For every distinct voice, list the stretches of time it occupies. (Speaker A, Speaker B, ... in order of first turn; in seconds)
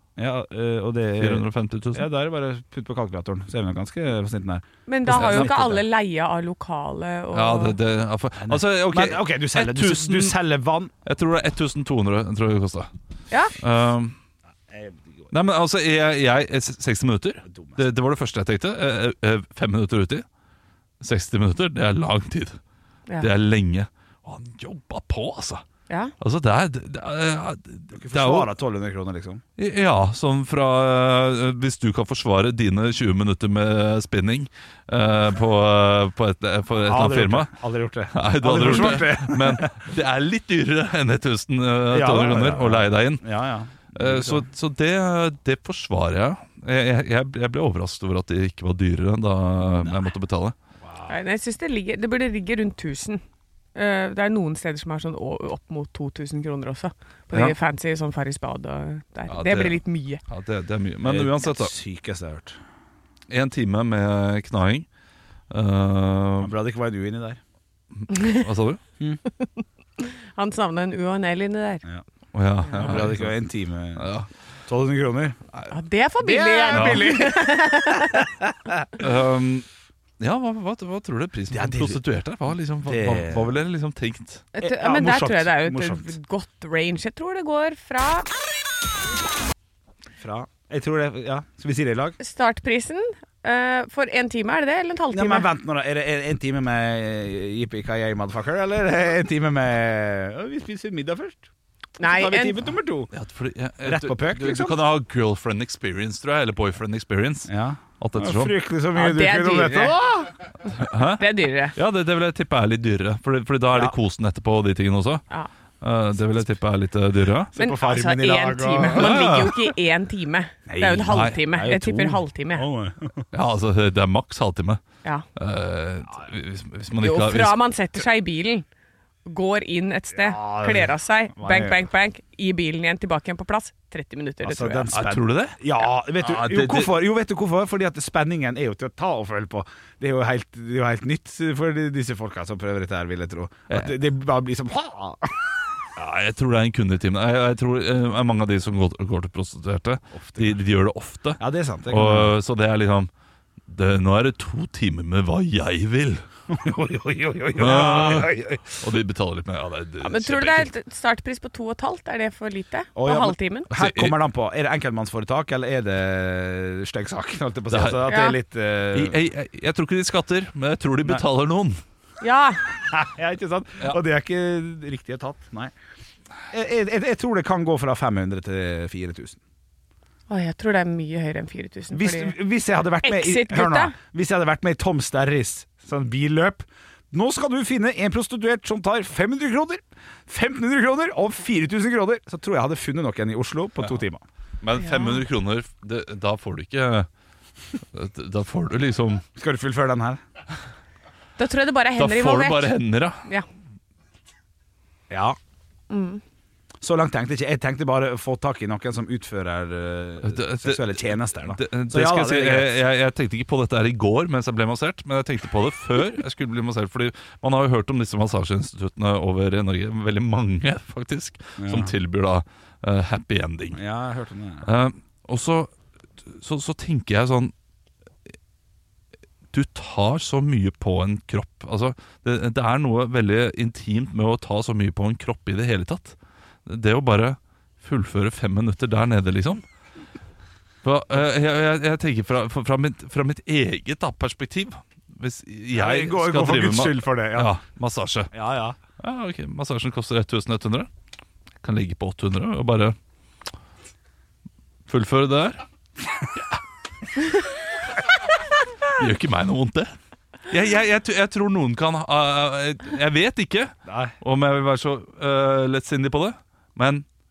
Speaker A: 0.2-5.8, 8.4-10.9, 14.7-15.3, 17.4-17.9, 27.9-29.4, 36.8-39.7, 41.9-44.5, 50.8-51.2, 61.0-62.6, 66.4-67.4, 72.7-74.1, 74.7-75.4, 76.2-79.1, 81.5-82.0, 82.8-83.5, 84.6-86.1, 90.2-92.2, 95.1-101.5, 102.0-103.1, 103.8-104.8, 107.5-110.3, 117.5-119.4, 120.7-123.2, 130.1-131.9, 134.4-145.5, 150.2-150.6, 151.4-152.3, 156.5-158.8, 163.0-169.2, 172.9-175.7, 176.5-179.4, 181.9-194.2, 199.4-200.2, 205.1-205.4, 206.8-212.8, 221.6-221.9, 223.7-224.7, 245.7-247.5, 248.3-248.8, 263.9-264.1
Speaker B: 1.2-2.1, 5.1-5.8, 7.3-10.4, 11.1-12.9, 13.6-14.2, 15.3-20.2, 21.0-22.6, 23.2-25.6, 26.2-28.5, 29.6-37.5, 38.1-43.3, 44.0-50.5, 59.3-61.7, 63.3-64.9, 65.5-66.5, 68.0-68.8, 72.3-73.4, 74.0-74.3, 76.7-77.1, 79.0-79.7, 80.2-84.5, 103.1-108.5, 110.8-115.2, 115.8-117.5, 119.0-119.7, 121.1-121.4, 123.3-124.8, 125.4-127.6, 134.9-135.6, 136.2-137.0, 146.0-153.1, 153.7-156.2, 157.6-160.7, 163.7-164.2, 167.7-168.1, 168.9-171.8, 194.6-197.1, 197.9-199.2, 202.0-203.2, 210.2-223.8, 224.7-225.7, 226.2-227.5, 229.5-239.6, 240.8-248.3, 249.0-250.9, 251.6-253.0, 254.9-255.6, 258.9-259.9, 260.5-267.1
Speaker C: 4.9-7.8, 51.1-53.2, 53.8-60.2, 69.4-71.8, 75.7-78.3, 84.5-88.3, 92.2-95.5, 102.0-102.6, 109.0-110.0, 111.2-111.8, 117.6-122.7, 127.0-128.7, 129.3-134.9, 160.0-163.7, 168.1-168.4, 172.2-172.6, 180.3-182.3, 183.0-183.9, 194.8-195.2, 201.4-202.7, 205.9-206.2